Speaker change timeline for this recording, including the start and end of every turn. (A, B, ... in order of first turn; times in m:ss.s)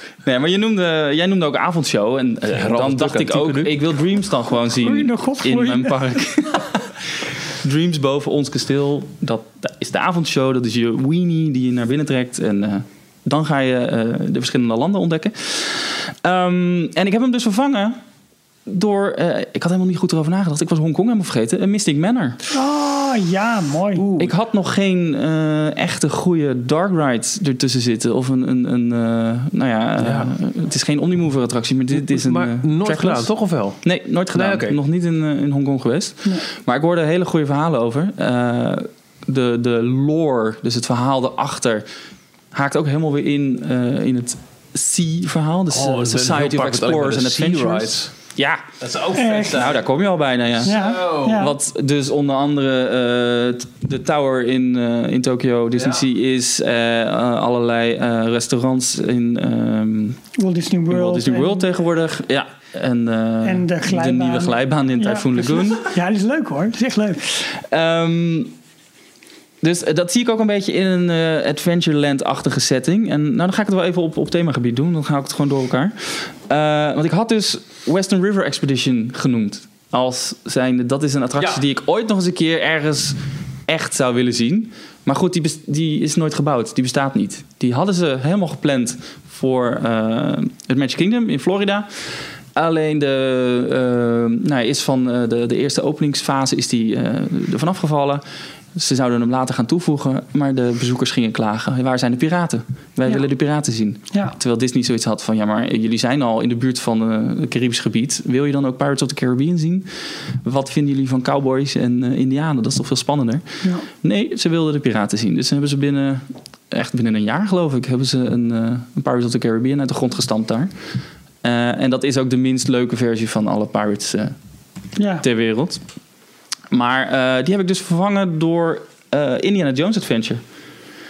0:00.2-0:18.0 A
0:02.5-0:03.7 B
0:04.7-0:06.2 C
0:18.7-0:22.4 A
0:22.5-0:24.0 C
0:23.9-0:24.3 B
0:24.2-0:33.3 A
0:30.0-0:30.3 B
0:31.9-0:33.8 B
0:33.8-0:41.8 A
0:34.3-0:34.8 B
0:42.5-0:48.6 A
0:45.7-0:48.1 B
0:48.8-0:49.8 B
0:49.1-0:49.6 C
0:49.3-1:00.2 A
0:50.6-0:51.5 B
0:50.6-0:51.5 C
0:55.8-0:56.0 B
1:00.4-1:01.6 C
1:00.9-1:05.8 A
1:03.4-1:07.4 C
1:07.5-1:08.5 A
1:09.6-1:38.2 A
1:38.7-1:49.9 A
1:50.4-2:00.7 A
2:01.4-2:04.3 A
2:05.0-2:05.2 C
2:05.2-2:05.8 A
2:06.7-2:10.4 A